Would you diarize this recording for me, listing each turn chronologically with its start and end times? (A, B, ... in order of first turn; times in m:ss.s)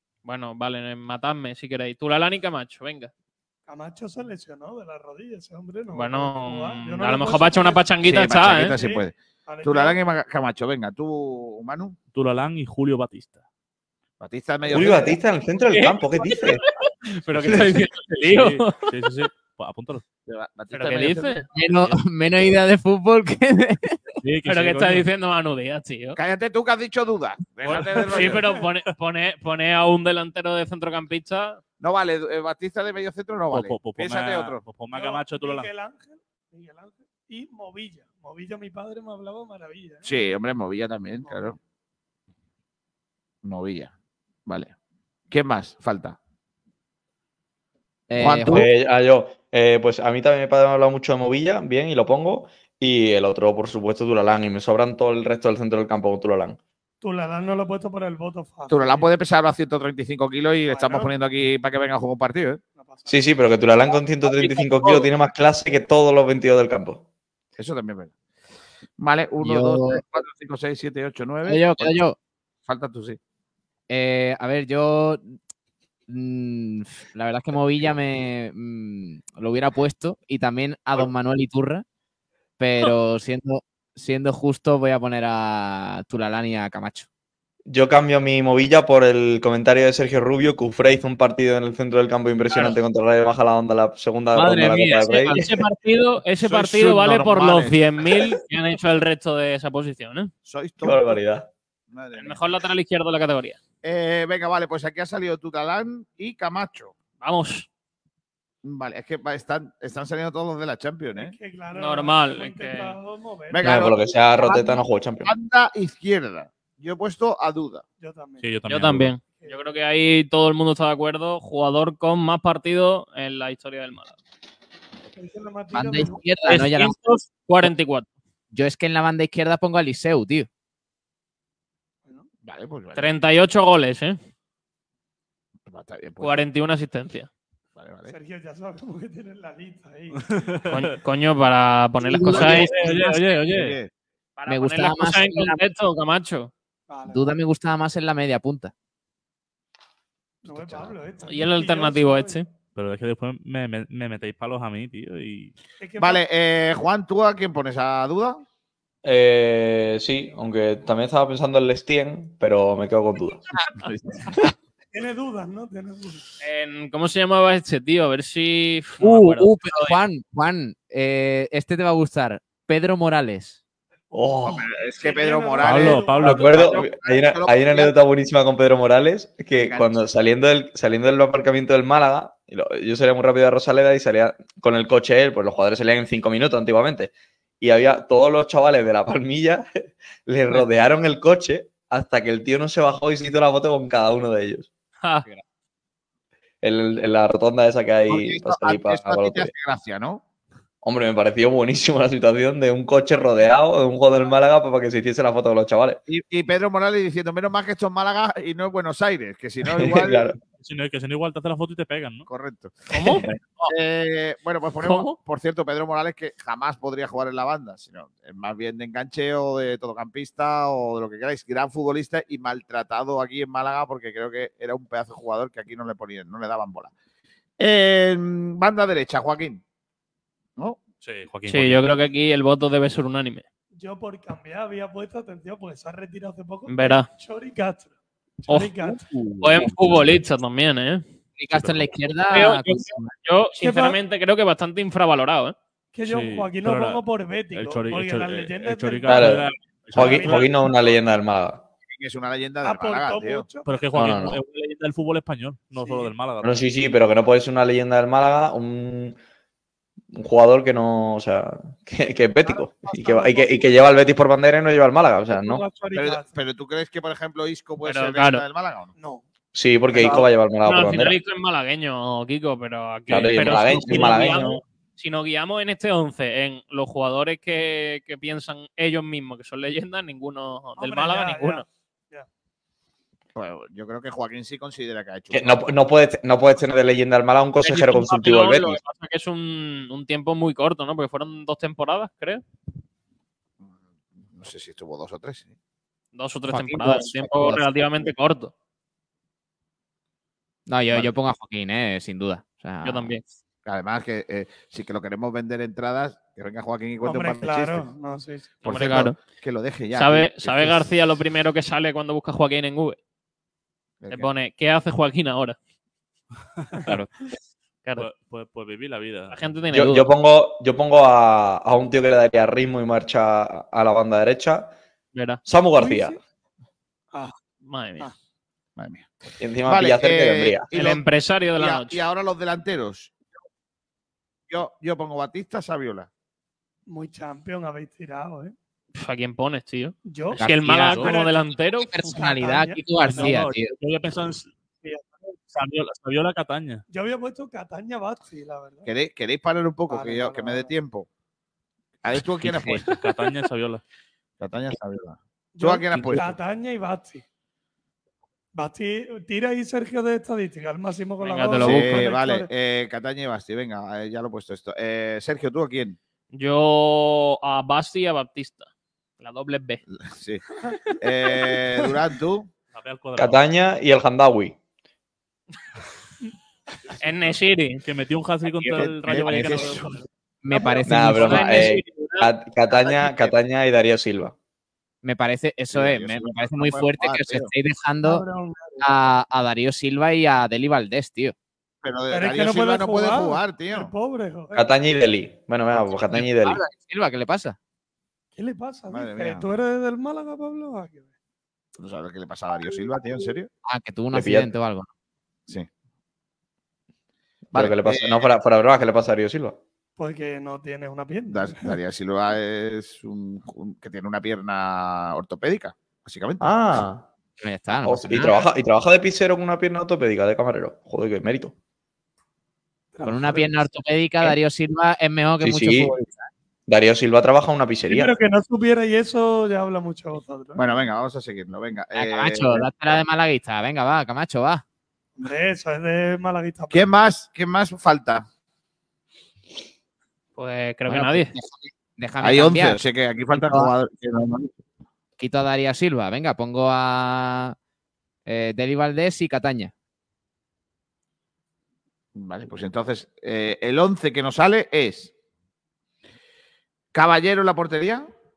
0:00.2-0:03.1 A
0:03.7-0:10.0 B
0:05.9-0:08.8 A
0:08.0-0:12.0 C
0:12.1-0:13.4 D
0:14.2-0:15.2 C
0:14.7-0:16.6 E
0:15.7-0:18.9 A
0:18.2-0:20.0 D
0:20.3-0:21.4 C
0:20.7-0:21.5 A
0:21.5-0:24.0 F
0:24.2-0:25.0 D
0:24.4-0:26.2 A
0:26.2-0:28.4 C
0:27.7-0:31.6 A
0:28.1-0:28.6 B
0:31.8-0:34.6 C
0:33.5-0:35.7 D
0:34.9-0:40.1 B
0:40.0-0:41.6 C
0:41.2-0:41.6 B
0:43.4-0:43.9 C
0:44.5-0:44.7 C
0:45.3-0:46.2 C
0:48.1-0:48.7 F
0:48.2-0:48.7 C
0:48.4-0:56.6 E
0:57.0-0:59.1 B
0:58.7-1:02.6 C
1:00.6-1:01.1 B
1:02.7-1:03.2 B
1:03.1-1:07.0 E
1:07.6-1:08.1 C
1:09.0-1:12.0 C
1:09.4-1:10.0 F
1:11.4-1:12.2 F
1:12.6-1:13.2 C
1:13.9-1:15.2 F
1:16.1-1:21.8 F
1:22.6-1:27.1 F
1:27.7-1:35.4 E
1:34.8-1:40.3 A
1:36.4-1:38.4 C
1:40.4-1:41.2 C
1:40.8-1:41.5 E
1:41.9-1:42.4 C
1:42.1-1:43.6 A
1:43.8-1:46.9 C
1:47.2-1:47.7 A
1:48.6-1:51.3 C
1:51.2-1:53.8 B
1:51.7-1:53.0 A
1:53.5-1:57.8 C
1:53.6-1:55.3 E
1:58.0-1:58.4 B
1:58.4-1:59.1 D
1:58.7-2:04.2 A
1:59.2-1:59.6 B
2:05.2-2:06.5 B
2:05.7-2:07.0 F
2:06.5-2:08.1 A
2:08.5-2:10.5 F
2:12.4-2:13.1 C
2:13.0-2:14.2 A
2:15.7-2:16.4 C
2:16.2-2:17.3 A
2:17.8-2:18.1 C
2:18.1-2:20.5 B
2:20.3-2:20.8 D
2:20.7-2:22.8 A
2:22.1-2:22.5 F
2:22.2-2:23.8 D
2:22.3-2:23.9 C
2:24.4-2:26.5 A
2:24.5-2:25.6 F
2:26.9-2:27.3 B
2:27.1-2:28.7 F
2:30.4-2:32.4 B
2:30.5-2:30.9 C
2:31.2-2:32.5 A
2:32.8-2:35.5 D
2:35.8-2:36.2 B
2:36.0-2:38.4 C
2:39.0-2:43.4 E
2:44.9-2:46.3 B
2:46.4-2:50.0 A
2:49.0-2:53.6 F
2:54.1-2:54.6 E
2:54.4-2:57.9 C
2:54.9-2:56.9 B
2:55.6-2:56.4 D
2:56.2-3:09.6 E
2:59.5-3:00.0 C
3:10.2-3:14.7 E
3:16.6-3:19.5 E
3:18.1-3:20.2 C
3:20.8-3:26.0 E
3:26.1-3:30.3 C
3:29.6-3:30.4 E
3:30.6-3:32.3 D
3:32.3-3:46.9 C
3:32.9-3:33.7 A
3:34.8-3:35.2 A
3:47.6-3:49.6 C
3:51.0-3:51.8 D
3:51.5-3:53.4 A
3:53.8-3:57.9 B
3:56.7-3:57.1 A
3:58.5-3:59.0 B
3:59.1-4:00.2 D
3:59.4-4:01.0 A
4:01.4-4:03.1 F
4:01.5-4:01.9 D
4:02.3-4:05.5 A
4:03.6-4:04.0 B
4:05.9-4:10.9 B
4:06.0-4:10.4 D
4:09.1-4:11.6 E
4:11.9-4:13.5 C
4:12.6-4:13.9 B
4:13.6-4:16.6 D
4:13.9-4:14.4 E
4:15.7-4:16.1 B
4:16.4-4:19.2 E
4:20.1-4:25.6 E
4:22.4-4:23.8 B
4:25.3-4:26.3 B
4:25.9-4:28.9 C
4:27.8-4:28.4 A
4:29.0-4:29.2 B
4:29.5-4:31.2 E
4:29.9-4:30.2 B
4:30.6-4:41.6 A
4:33.1-4:34.6 E
4:40.8-4:42.3 B
4:43.3-4:45.6 C
4:45.3-4:48.8 E
4:47.6-4:52.4 A
4:54.3-4:55.5 C
4:56.1-4:58.5 A
4:56.5-4:57.6 F
5:00.7-5:03.1 F
5:02.8-5:03.2 A
5:03.6-5:07.9 C
5:07.0-5:08.6 B
5:08.6-5:11.1 C
5:08.6-5:09.2 A
5:09.9-5:13.0 A
5:14.0-5:14.3 C
5:14.1-5:15.6 A
5:18.0-5:19.4 D
5:19.3-5:20.1 A
5:19.7-5:24.7 E
5:25.1-5:25.4 A
5:25.4-5:26.2 E
5:25.7-5:26.2 B
5:27.6-5:28.1 A
5:28.8-5:29.1 C
5:29.4-5:30.7 E
5:29.6-5:33.1 C
5:30.7-5:32.0 A
5:34.5-5:36.1 C
5:36.9-5:38.5 B
5:38.9-5:42.2 A
5:40.0-5:43.3 B
5:40.4-5:41.2 F
5:41.8-5:43.7 F
5:43.0-5:44.5 D
5:44.8-5:45.4 B
5:45.5-5:46.8 D
5:46.9-5:48.9 B
5:48.9-5:51.1 C
5:49.9-5:50.7 B
5:52.0-5:53.0 C
5:52.4-5:53.8 D
5:54.4-5:56.4 C
5:55.5-5:57.2 B
5:55.9-5:56.2 D
5:58.6-6:02.5 B
6:01.2-6:02.1 A
6:01.6-6:06.0 C
6:06.3-6:08.7 A
6:09.2-6:09.8 A
6:09.9-6:10.4 C
6:11.0-6:12.5 C
6:12.7-6:13.4 D
6:13.2-6:14.6 E
6:17.0-6:17.8 A
6:17.8-6:19.9 D
6:18.6-6:19.9 C
6:19.2-6:19.9 B
6:20.4-6:21.7 F
6:20.5-6:21.1 B
6:20.5-6:22.3 A
6:20.8-6:24.3 E
6:25.0-6:28.2 F
6:25.7-6:27.5 C
6:28.0-6:28.8 B
6:28.8-6:31.3 F
6:31.8-6:33.9 C
6:32.1-6:34.7 B
6:34.5-6:36.6 E
6:36.1-6:37.6 F
6:38.4-6:41.1 B
6:38.9-6:39.5 C
6:41.8-6:43.5 C
6:42.7-6:43.3 B
6:43.6-6:44.9 F
6:44.1-6:44.5 E
6:47.5-6:49.6 E
6:47.5-6:48.2 C
6:50.0-6:51.8 B
6:51.3-6:56.5 C
6:56.4-6:57.1 E
6:57.4-6:58.4 F
6:57.8-7:01.5 E
7:02.9-7:03.6 B
7:03.0-7:06.3 F
7:05.4-7:05.9 E
7:06.7-7:08.1 E
7:07.9-7:10.6 B
7:10.6-7:12.7 C
7:11.9-7:14.6 F
7:15.2-7:16.9 B
7:16.7-7:18.2 C
7:20.4-7:21.3 A
7:20.9-7:21.2 F
7:22.0-7:22.8 F
7:22.2-7:24.5 C
7:23.3-7:23.7 F
7:25.2-7:27.6 F
7:28.2-7:29.7 F
7:32.2-7:35.1 C
7:36.9-7:38.1 C